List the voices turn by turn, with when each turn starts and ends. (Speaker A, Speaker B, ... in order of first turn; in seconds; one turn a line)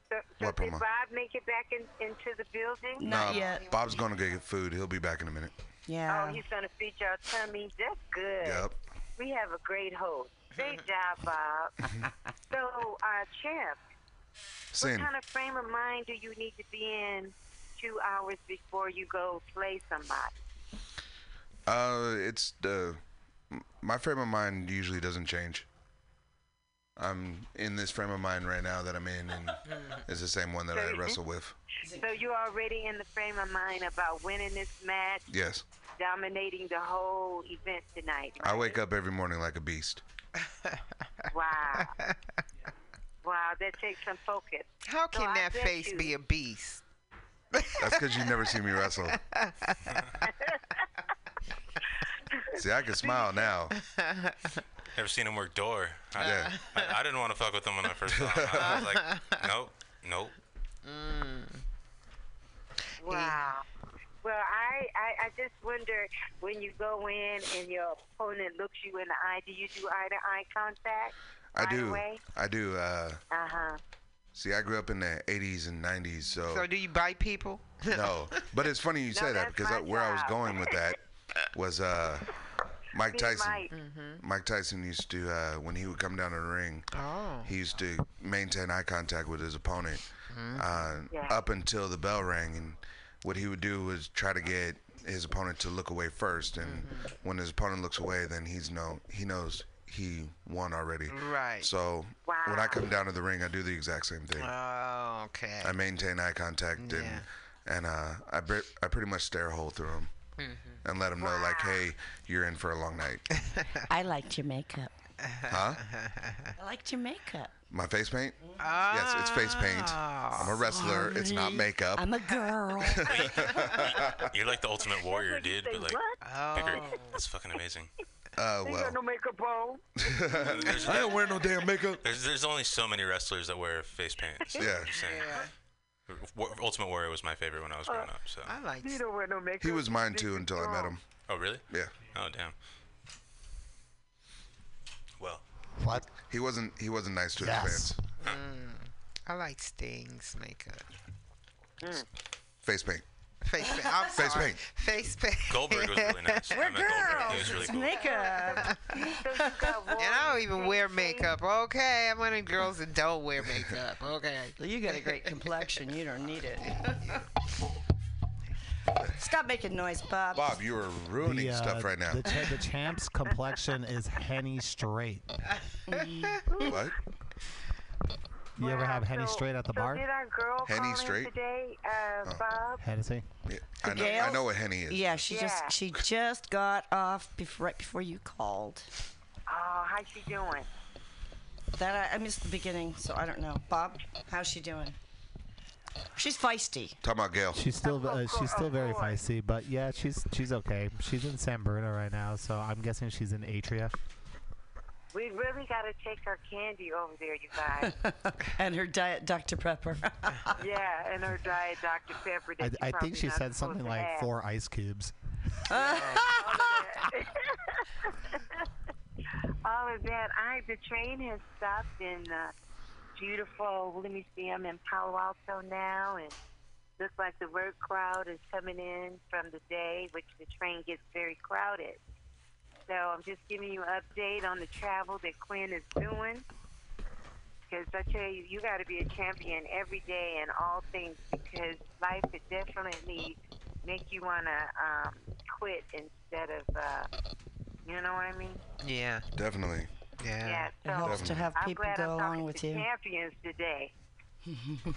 Speaker A: 0.1-3.3
Speaker B: 0.4-0.8
Speaker C: 3.0-3.7
Speaker B: 3.0-5.5
Speaker D: 3.2-3.9
Speaker C: 5.9-6.4
Speaker A: 6.1-11.8
Speaker B: 8.4-8.7
Speaker D: 10.5-10.8
Speaker A: 12.5-13.8
Speaker B: 14.7-15.1
Speaker A: 14.8-20.3
Speaker B: 21.7-23.0
Speaker B: 23.5-25.6
Speaker B: 27.0-31.6
Speaker A: 30.7-31.2
Speaker A: 31.9-35.2
Speaker B: 35.3-35.6
Speaker A: 36.0-38.8
Speaker B: 38.4-40.0
Speaker A: 41.3-41.9
Speaker D: 41.8-42.1
Speaker A: 43.2-46.1
Speaker D: 44.8-46.8
Speaker D: 47.5-47.8
Speaker B: 47.8-49.2
Speaker D: 49.1-50.0
Speaker A: 52.3-53.5
Speaker B: 52.5-53.7
Speaker D: 53.7-54.4
Speaker E: 54.9-60.3
Speaker B: 56.2-56.5
Speaker D: 56.2-57.0
Speaker B: 58.1-58.7
Speaker D: 58.6-59.5
Speaker D: 60.8-61.6
Speaker A: 63.0-63.6
Speaker D: 63.0-63.5
Speaker A: 64.2-72.2
Speaker B: 71.5-73.2
Speaker A: 73.3-73.8
Speaker B: 74.3-76.7
Speaker D: 76.5-78.4
Speaker B: 77.9-81.0
Speaker A: 79.1-80.8
Speaker B: 81.5-82.3
Speaker B: 82.9-86.9
Speaker A: 83.0-83.7
Speaker D: 83.7-84.2
Speaker D: 86.9-87.5
Speaker B: 87.4-104.5
Speaker D: 90.3-90.7
Speaker A: 91.1-91.4
Speaker D: 96.6-97.1
Speaker D: 101.1-101.7
Speaker A: 102.2-102.8
Speaker D: 104.4-105.7
Speaker B: 105.6-110.1
Speaker D: 106.8-107.2
Speaker D: 110.4-110.8
Speaker B: 110.8-113.2
Speaker A: 111.2-111.8
Speaker C: 113.9-114.9
Speaker D: 115.2-116.5
Speaker B: 115.5-115.8
Speaker C: 116.6-117.5
Speaker B: 117.7-122.1
Speaker D: 118.6-120.7
Speaker C: 120.6-123.0
Speaker D: 122.2-122.5
Speaker E: 123.1-127.9
Speaker B: 123.2-124.1
Speaker A: 125.0-127.0
Speaker D: 126.2-127.2
Speaker B: 128.3-129.0
Speaker A: 128.6-129.8
Speaker B: 130.0-132.1
Speaker A: 130.4-131.4
Speaker E: 130.5-131.4
Speaker E: 132.0-135.4
Speaker B: 134.6-135.0
Speaker D: 135.0-135.5
Speaker E: 136.1-138.5
Speaker A: 137.9-138.1
Speaker D: 138.4-139.0
Speaker A: 138.8-140.9
Speaker B: 139.6-141.0
Speaker E: 141.2-142.5
Speaker B: 141.7-141.9
Speaker F: 145.8-146.1
Speaker B: 146.2-148.0
Speaker F: 147.4-148.0
Speaker D: 148.2-150.8
Speaker B: 152.6-153.0
Speaker D: 153.4-157.6
Speaker B: 154.1-154.6
Speaker E: 155.5-157.9
Speaker C: 156.5-158.8
Speaker A: 157.9-161.3
Speaker D: 158.6-165.4
Speaker C: 164.6-167.0
Speaker D: 166.7-167.2
Speaker C: 169.2-170.6
Speaker B: 170.3-172.3
Speaker F: 171.2-175.3
Speaker D: 175.5-176.4
Speaker C: 175.9-176.3
Speaker B: 176.7-176.9
Speaker F: 178.6-180.0
Speaker A: 178.6-182.8
Speaker B: 180.6-181.3
Speaker F: 182.8-183.2
Speaker B: 183.4-185.3
Speaker A: 183.9-184.4
Speaker C: 183.9-188.9
Speaker A: 185.3-185.8
Speaker A: 189.5-190.7
Speaker C: 191.7-194.9
Speaker C: 196.1-197.0
Speaker B: 197.0-197.7
Speaker F: 197.5-203.9
Speaker A: 197.8-199.2
Speaker A: 205.1-207.9
Speaker C: 207.8-210.6
Speaker A: 210.6-214.3
Speaker F: 212.6-215.1
Speaker C: 215.7-216.5
Speaker D: 215.7-216.8
Speaker A: 215.7-218.6
Speaker A: 219.6-222.5
Speaker A: 223.2-226.3
Speaker A: 227.0-232.0
Speaker A: 232.9-236.4
Speaker A: 237.7-247.1
Speaker A: 247.8-248.6
Speaker D: 248.8-249.2
Speaker B: 249.3-249.9
Speaker D: 250.2-250.8
Speaker A: 250.4-253.9
Speaker C: 250.8-252.8
Speaker B: 251.0-251.5